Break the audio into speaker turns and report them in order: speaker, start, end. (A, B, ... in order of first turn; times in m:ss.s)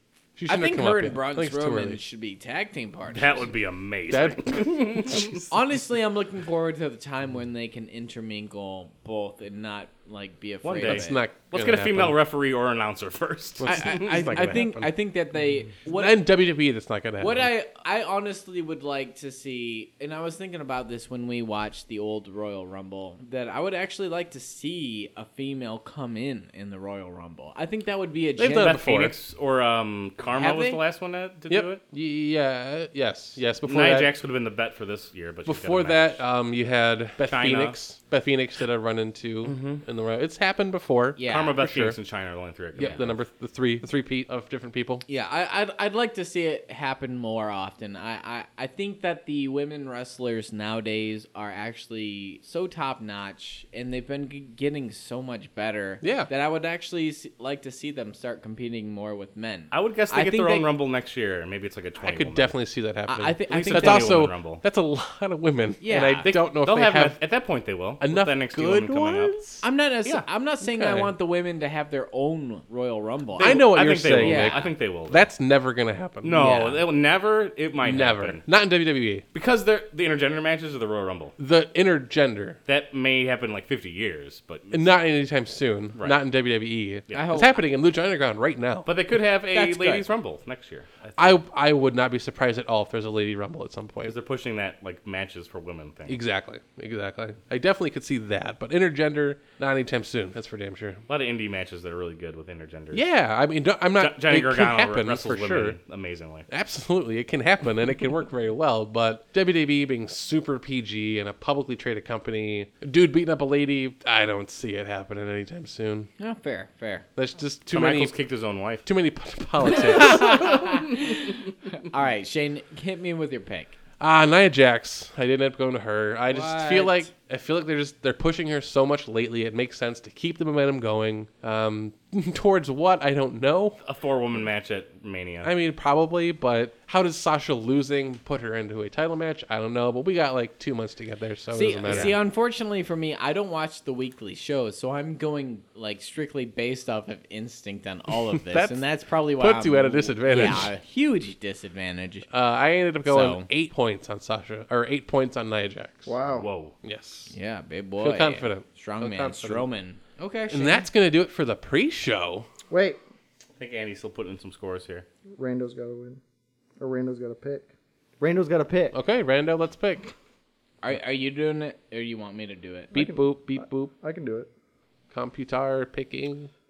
0:00.4-0:02.0 A
0:00.5-0:03.5 B
0:03.1-0:05.4 C
0:04.1-0:05.3 A
0:05.5-0:11.2 B
0:10.6-0:14.6 C
0:10.8-0:12.2 A
0:13.6-0:14.9 A
0:13.6-0:16.2 B
0:15.9-0:17.5 A
0:17.2-0:28.8 B
0:28.4-0:29.2 A
0:28.6-0:31.8 C
0:30.3-0:30.8 B
0:31.5-0:34.1 A
0:33.6-0:36.2 C
0:35.5-0:42.0 A
0:37.2-0:37.8 C
0:39.4-0:39.8 C
0:41.2-0:41.6 B
0:41.3-0:43.1 C
0:42.8-0:45.0 A
0:45.1-1:00.7 B
0:56.0-0:56.3 A
0:59.7-1:02.6 C
1:02.0-1:07.2 A
1:03.1-1:04.2 B
1:03.5-1:04.6 C
1:05.8-1:06.3 B
1:06.2-1:09.4 C
1:08.0-1:09.6 A
1:09.6-1:14.7 B
1:10.6-1:11.1 A
1:13.4-1:15.3 C
1:13.4-1:16.6 A
1:16.2-1:18.4 C
1:16.3-1:16.8 B
1:17.8-1:19.2 A
1:19.3-1:21.4 C
1:21.4-1:22.6 A
1:22.7-1:24.9 C
1:24.7-1:28.9 A
1:27.1-1:27.6 B
1:28.9-1:31.4 C
1:29.5-1:30.1 B
1:31.2-1:34.2 A
1:34.0-1:36.2 C
1:36.1-1:41.0 A
1:41.1-1:43.1 C
1:42.9-1:45.8 A
1:44.0-1:46.5 C
1:46.5-1:56.1 A
1:56.2-1:57.1 B
1:57.2-1:58.1 A
1:57.7-1:58.9 C
1:58.8-2:00.8 A
1:59.7-2:03.8 B
2:04.0-2:13.8 A
2:06.3-2:07.1 B
2:13.8-2:15.5 C
2:15.4-2:22.2 A
2:21.5-2:32.3 B
2:21.9-2:22.2 C
2:28.4-2:28.8 A
2:29.4-2:30.7 A
2:32.3-2:36.1 A
2:33.0-2:33.5 B
2:36.1-2:36.5 D
2:36.4-2:36.8 C
2:36.8-2:37.3 A
2:37.3-2:40.9 B
2:38.0-2:39.7 A
2:40.5-2:42.5 A
2:42.7-2:43.0 D
2:43.6-2:45.1 C
2:45.4-2:46.2 D
2:46.8-2:47.7 D
2:48.2-2:49.0 D
2:48.9-2:50.1 A
2:50.8-2:52.9 B
2:52.9-2:53.9 A
2:52.9-2:54.5 D
2:55.1-2:56.5 A